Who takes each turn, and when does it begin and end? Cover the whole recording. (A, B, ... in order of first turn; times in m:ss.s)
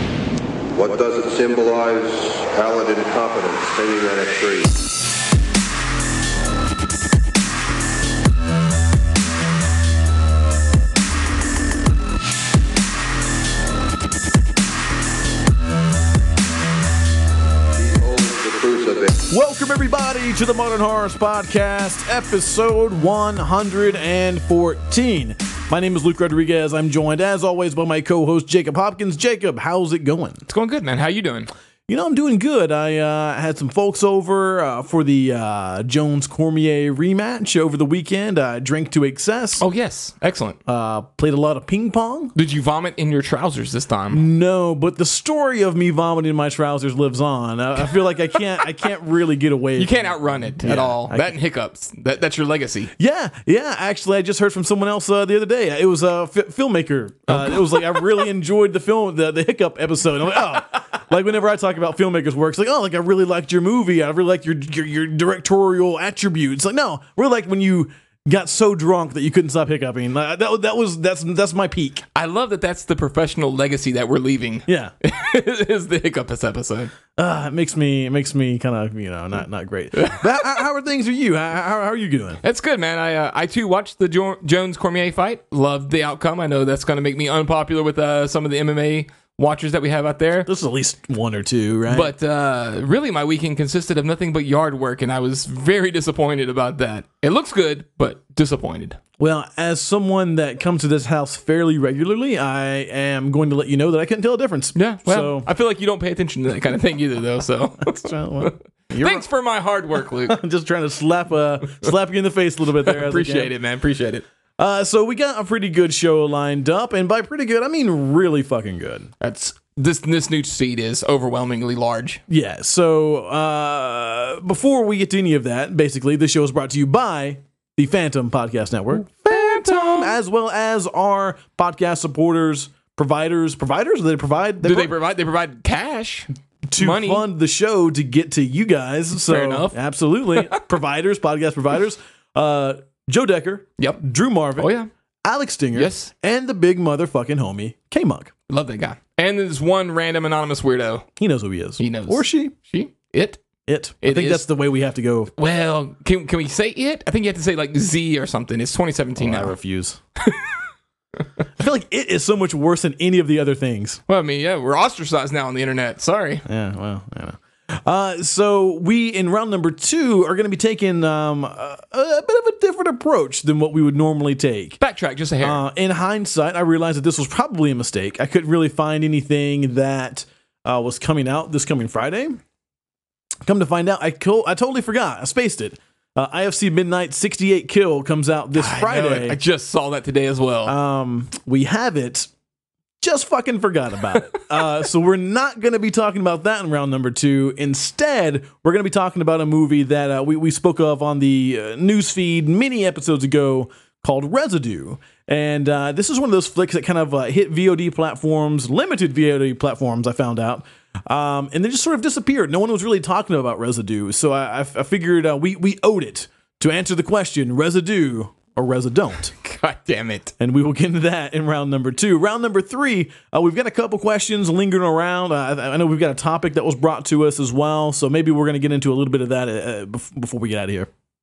0:00.8-0:04.7 A
0:17.8-0:19.2 A
0:19.3-0:30.5 B
0:30.5-0:31.5 C
0:31.9-0:39.6 B
0:39.6-0:40.6 C
0:40.7-0:42.4 B
0:42.4-0:44.2 C
0:44.1-0:51.3 B
0:49.8-0:52.9 C
0:53.0-1:12.0 B
0:57.3-0:58.0 C
1:12.1-1:16.9 C
1:14.7-1:14.9 B
1:17.2-1:22.4 B
1:20.0-1:20.3 C
1:22.4-1:30.5 C
1:30.5-1:32.1 B
1:31.9-1:39.0 C
1:39.2-1:45.5 B
1:44.8-1:50.4 C
1:47.8-1:49.2 B
1:50.3-1:53.5 B
1:52.8-1:54.3 C
1:54.6-1:59.1 B
1:59.2-2:02.2 C
2:02.3-2:14.9 B
2:09.1-2:10.2 C
2:14.6-2:17.3 C
2:16.7-2:24.7 B
2:19.2-2:19.8 C
2:20.3-2:20.6 C
2:24.6-2:24.9 C
2:25.2-2:28.3 B
2:25.7-2:26.1 C
2:28.5-2:31.0 C
2:31.2-2:32.6 B
2:31.8-2:33.4 C
2:33.7-2:35.3 B
2:34.0-2:34.4 C
2:35.4-2:39.6 C
2:39.2-2:40.0 B
2:40.2-2:40.6 C
2:41.6-2:44.0 B
2:44.1-2:46.4 C
2:46.5-2:54.8 B
2:54.8-2:55.6 C
2:55.4-3:02.4 B
3:03.4-3:09.4 B
3:08.6-3:10.7 C
3:10.7-3:12.3 B
3:13.0-3:39.3 B
3:39.3-3:40.3 C
3:40.4-3:50.9 B